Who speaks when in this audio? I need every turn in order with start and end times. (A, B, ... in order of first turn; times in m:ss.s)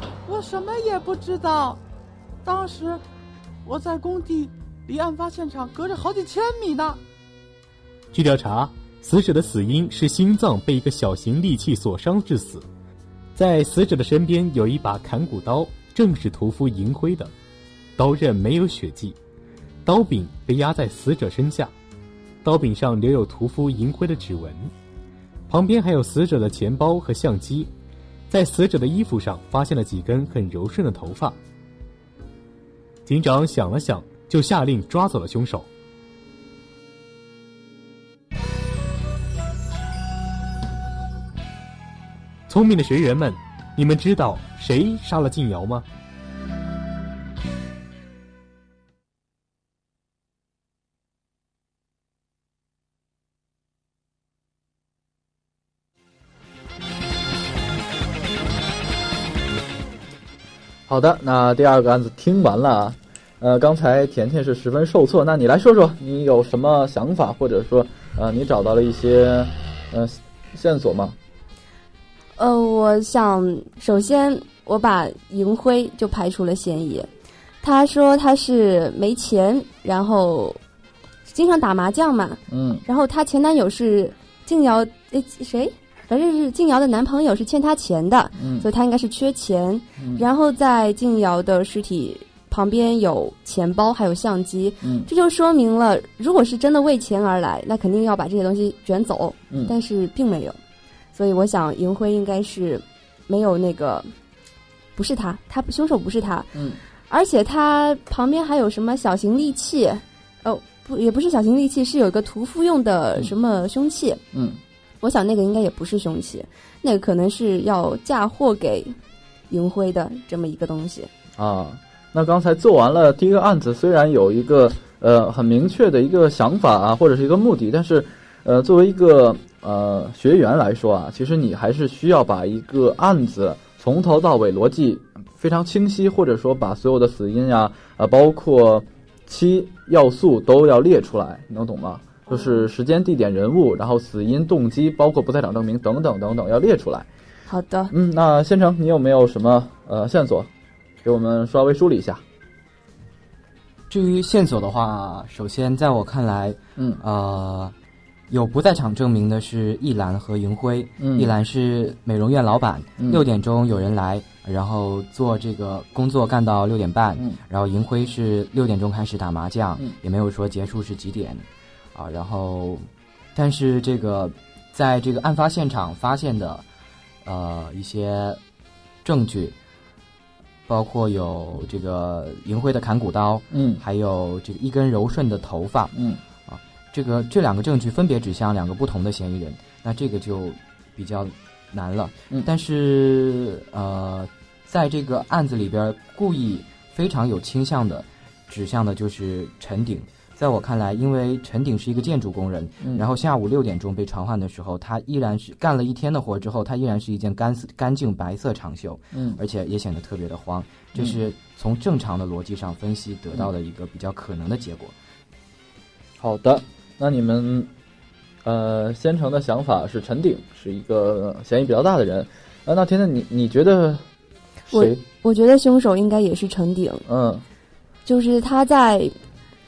0:00.3-0:01.8 A
0:02.4-0:03.0 A
0:03.6-0:07.0 A
0:08.1-0:12.7 B
0:13.4-0:17.3 B
0:18.0-0:19.2 B
0:19.8-0:21.7 B
0:22.4-0:24.7 B
0:25.5-0:27.7 B
0:28.3-0:31.4 B
0:33.1-0:35.7 B
0:42.5-0:45.9 B
1:00.9-1:11.2 C
1:12.4-1:17.1 D
1:17.6-1:20.6 D
1:21.3-1:40.6 D
1:22.5-1:22.8 C
1:28.4-1:28.7 C
1:30.0-1:30.2 C
1:34.8-1:35.1 C
1:41.1-1:44.1 D
1:45.0-1:46.6 D
1:46.5-1:46.8 C
1:47.1-1:54.2 D
1:54.3-1:54.6 C
1:55.0-1:59.0 D
1:59.5-2:01.1 D
2:01.4-2:27.1 C
2:22.3-2:22.7 D
2:27.5-2:27.9 D
2:27.9-2:30.5 C
2:31.0-2:32.2 C
2:33.9-2:37.8 E
2:38.3-2:56.6 E
2:41.0-2:41.3 C
2:57.2-2:58.4 E
2:59.0-2:59.6 E
3:00.7-3:05.9 E
3:03.5-3:03.8 C
3:05.9-3:06.2 C
3:06.5-3:35.0 E
3:29.1-3:29.4 C
3:36.2-3:37.7 C
3:38.4-3:44.0 C
3:44.7-3:45.0 C
3:44.7-3:47.0 D
3:47.1-3:47.4 C
3:48.0-3:49.1 D